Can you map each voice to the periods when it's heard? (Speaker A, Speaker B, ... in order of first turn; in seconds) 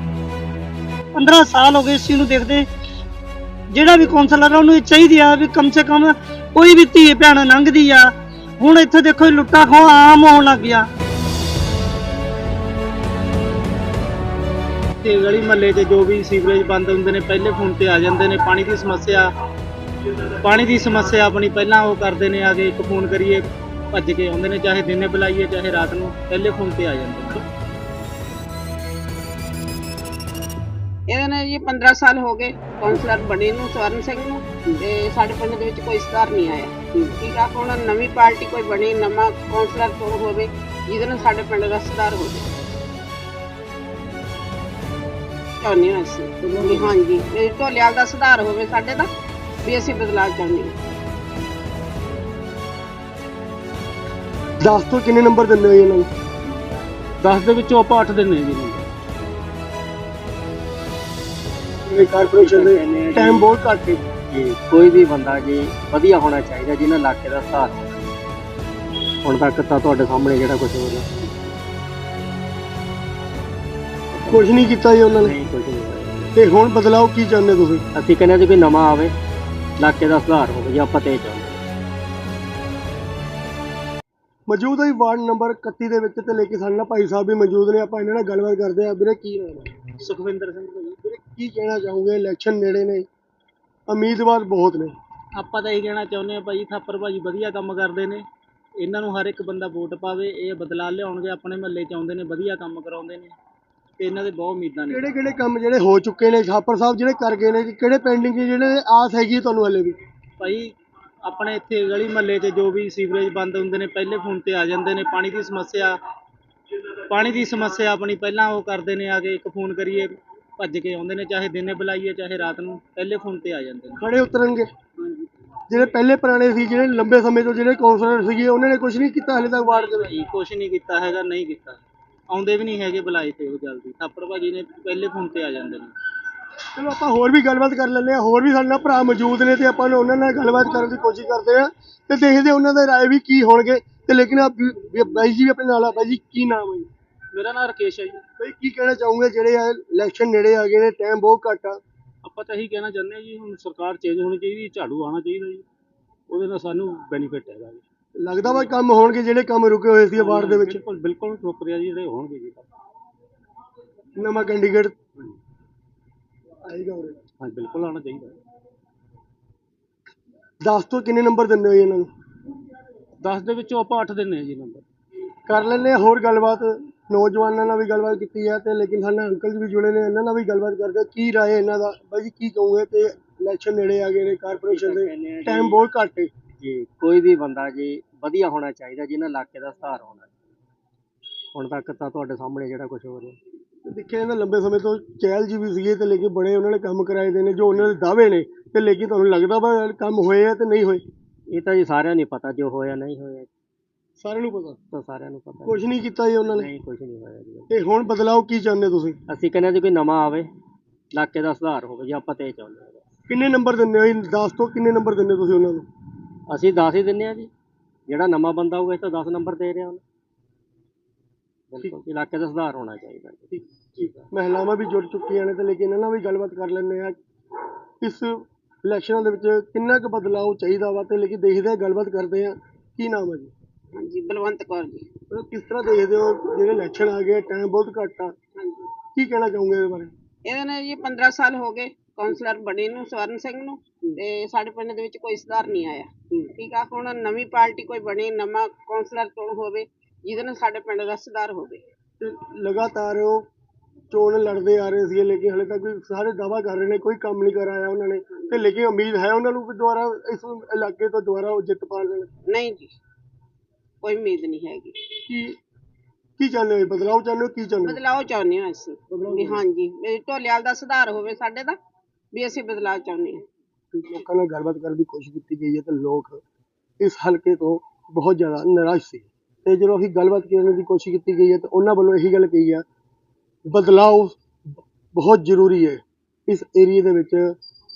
Speaker A: 1.1-2.7, 3.7-10.8
Speaker B: 15.0-19.3, 20.4-27.4, 57.2-58.9, 90.0-91.0, 95.3-98.2, 98.8-103.3, 104.0-105.0, 110.4-116.0, 117.1-124.0, 129.7-135.9, 147.3-148.2, 152.2-155.6, 156.3-157.8, 160.2-162.7, 167.4-168.4, 173.2-174.8
Speaker C: 31.1-42.5, 45.6-49.1, 49.6-50.7, 233.9-235.1, 238.6-238.9, 240.4-251.8, 262.5-262.9, 264.0-265.1, 267.8-271.8, 272.3-273.4
Speaker D: 46.5-46.9, 54.6-56.1, 61.9-64.0, 74.3-75.3, 76.3-77.8, 84.5-89.8, 91.0-93.1, 93.9-94.9, 104.9-110.0, 124.0-124.7, 125.7-130.1, 136.7-146.9, 148.4-151.8, 158.2-160.8, 164.2-164.9, 166.6-167.2, 170.6-172.1, 175.5-186.3, 193.8-201.0, 204.2-204.8, 205.7-206.7, 207.7-209.2, 213.3-215.8, 223.5-227.2, 228.0-233.5, 235.3-238.3, 239.1-240.1, 252.2-253.5, 254.1-262.3, 265.3-265.6, 266.4-268.0, 269.1-269.6, 273.9-276.4, 277.0-282.8, 283.7-284.4, 285.1-287.5
Speaker E: 62.3-63.5, 64.3-67.9, 69.2-71.3, 74.1-74.5, 75.2-76.3, 77.9-79.1, 79.8-81.7, 184.5-185.8, 186.6-190.3, 191.5-193.4, 201.5-203.5, 204.9-205.8, 206.5-207.7, 209.3-210.5, 211.1-213.0, 216.5-217.5, 218.1-220.0, 221.7-224.2